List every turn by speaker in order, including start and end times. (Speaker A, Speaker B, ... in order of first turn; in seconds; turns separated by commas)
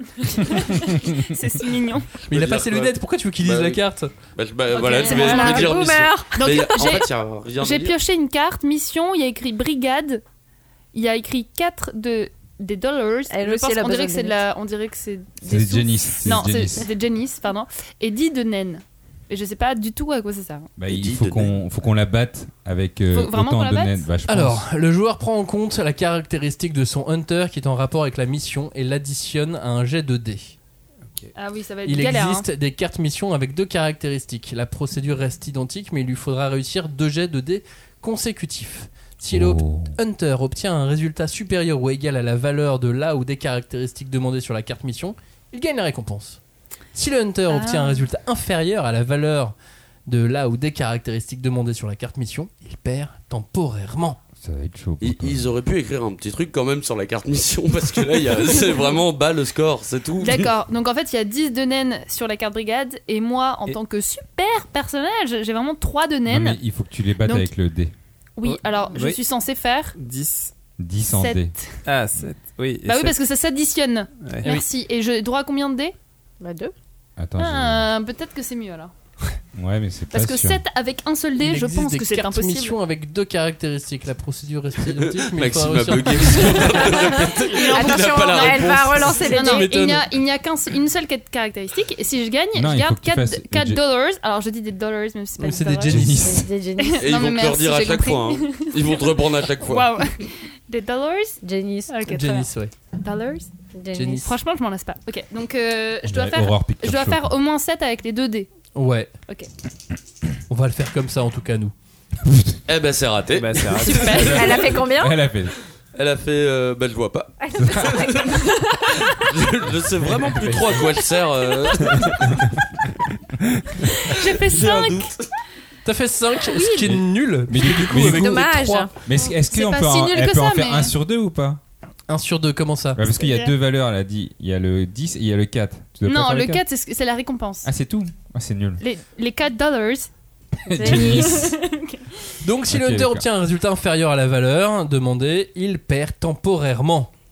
Speaker A: 0.2-2.1, Speaker B: 2.2-4.1, Speaker C: 2.3-3.8, Speaker C: 4.3-8.0, Speaker A: 4.7-10.2, Speaker D: 4.8-6.8, Speaker A: 10.9-20.7, Speaker D: 13.3-14.4, Speaker E: 15.5-16.9, Speaker E: 20.8-24.6, Speaker C: 20.9-21.6, Speaker A: 23.1-24.1, Speaker B: 24.3-30.5, Speaker A: 31.4-32.5, Speaker B: 31.9-46.4, Speaker E: 39.3-40.0, Speaker B: 46.9-49.5, Speaker A: 47.5-48.0, Speaker B: 50.1-54.2, Speaker E: 54.4-55.5, Speaker C: 55.0-60.5, Speaker A: 60.2-66.6, Speaker E: 66.3-67.9, Speaker A: 67.2-67.5, Speaker A: 68.4-70.0, Speaker F: 68.4-69.2, Speaker F: 70.0-70.5, Speaker E: 70.8-71.5, Speaker A: 71.1-71.8, Speaker F: 71.9-73.2, Speaker A: 72.8-76.0, Speaker F: 74.2-74.6, Speaker D: 76.4-76.7, Speaker E: 77.2-77.9, Speaker A: 77.4-78.9, Speaker E: 79.5-80.6, Speaker A: 80.1-82.8, Speaker B: 81.4-86.9, Speaker C: 84.8-89.3, Speaker D: 87.0-89.9, Speaker A: 87.4-96.1, Speaker B: 89.3-90.0, Speaker E: 92.5-93.8, Speaker B: 95.4-96.2, Speaker E: 95.9-96.5, Speaker D: 96.1-97.1, Speaker A: 96.8-103.5, Speaker C: 97.0-99.9, Speaker D: 101.4-101.9, Speaker B: 102.0-102.7, Speaker D: 103.7-104.3, Speaker B: 104.0-104.3, Speaker A: 104.2-108.5, Speaker E: 106.1-107.3, Speaker B: 108.8-109.1, Speaker B: 110.5-111.7, Speaker E: 112.2-112.6, Speaker C: 112.7-114.7, Speaker F: 113.3-114.3, Speaker A: 113.8-114.5, Speaker D: 114.0-115.2, Speaker E: 115.0-115.5, Speaker C: 115.9-118.5, Speaker D: 117.4-118.6, Speaker E: 117.6-118.1, Speaker C: 119.1-122.4, Speaker F: 120.2-120.8, Speaker F: 121.8-122.5, Speaker C: 123.9-125.3, Speaker A: 124.1-125.1, Speaker B: 125.8-128.9, Speaker A: 126.4-127.0, Speaker E: 126.8-128.5, Speaker D: 128.0-128.9, Speaker E: 129.0-131.6, Speaker A: 129.1-130.9, Speaker B: 132.1-133.0, Speaker E: 133.0-136.6, Speaker A: 133.2-133.5, Speaker A: 136.1-137.7, Speaker E: 137.6-138.8, Speaker A: 138.8-140.1, Speaker A: 140.7-142.1, Speaker D: 140.7-141.5, Speaker E: 140.8-141.4, Speaker B: 142.4-147.1, Speaker E: 142.7-143.2